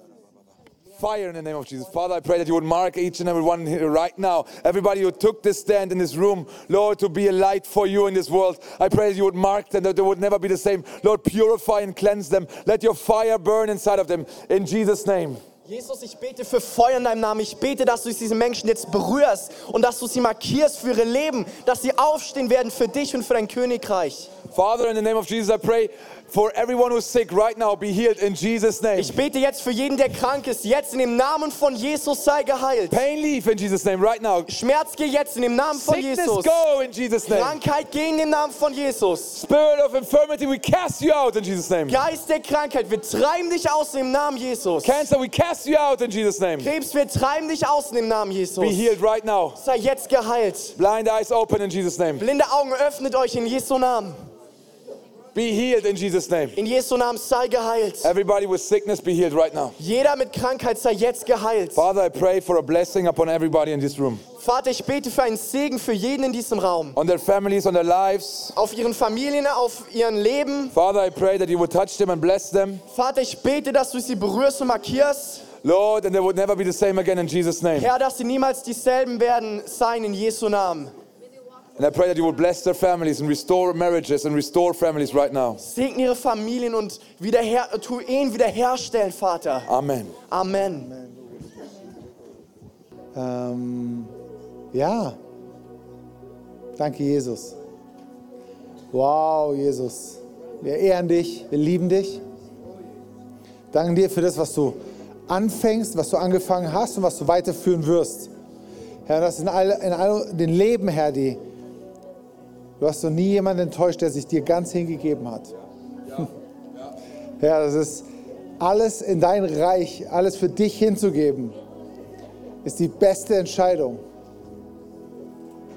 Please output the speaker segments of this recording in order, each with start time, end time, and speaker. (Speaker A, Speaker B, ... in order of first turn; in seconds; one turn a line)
Speaker A: 1.0-15.4
Speaker B: 15.7-24.3
Speaker A: 24.5-29.2
Speaker B: 29.0-33.0
Speaker A: 32.9-34.5
Speaker B: 34.5-36.6
Speaker A: 35.7-37.6
Speaker B: 37.3-39.4
Speaker A: 39.3-42.0
Speaker B: 41.9-45.1
Speaker A: 44.8-46.7
Speaker B: 46.6-49.0
Speaker A: 48.6-49.6
Speaker B: 49.6-50.8
Speaker A: 50.8-52.3
Speaker B: 52.2-54.2
Speaker A: 55.3-56.6
Speaker B: 56.6-58.1
Speaker A: 58.0-59.8
Speaker B: 59.8-61.8
Speaker A: 61.8-64.2
Speaker B: 64.4-67.0
Speaker A: 67.0-68.5
Speaker B: 68.5-70.8
Speaker A: 70.7-72.8
Speaker B: 72.9-75.5
Speaker A: 75.6-77.9
Speaker B: 77.8-80.9
Speaker A: 81.8-85.6
Speaker B: 85.6-89.7
Speaker A: 89.7-90.2
Speaker B: 90.3-90.9
Speaker C: 90.9-91.2
Speaker C: 93.2-94.1
Speaker C: 94.7-95.2
Speaker C: 96.8-97.5
Speaker C: 98.9-102.2
Speaker C: 103.7-104.8
Speaker C: 105.3-108.3
Speaker C: 109.1-111.4
Speaker C: 112.8-115.5
Speaker C: 117.4-118.1
Speaker C: 118.6-121.6
Speaker C: 122.6-124.0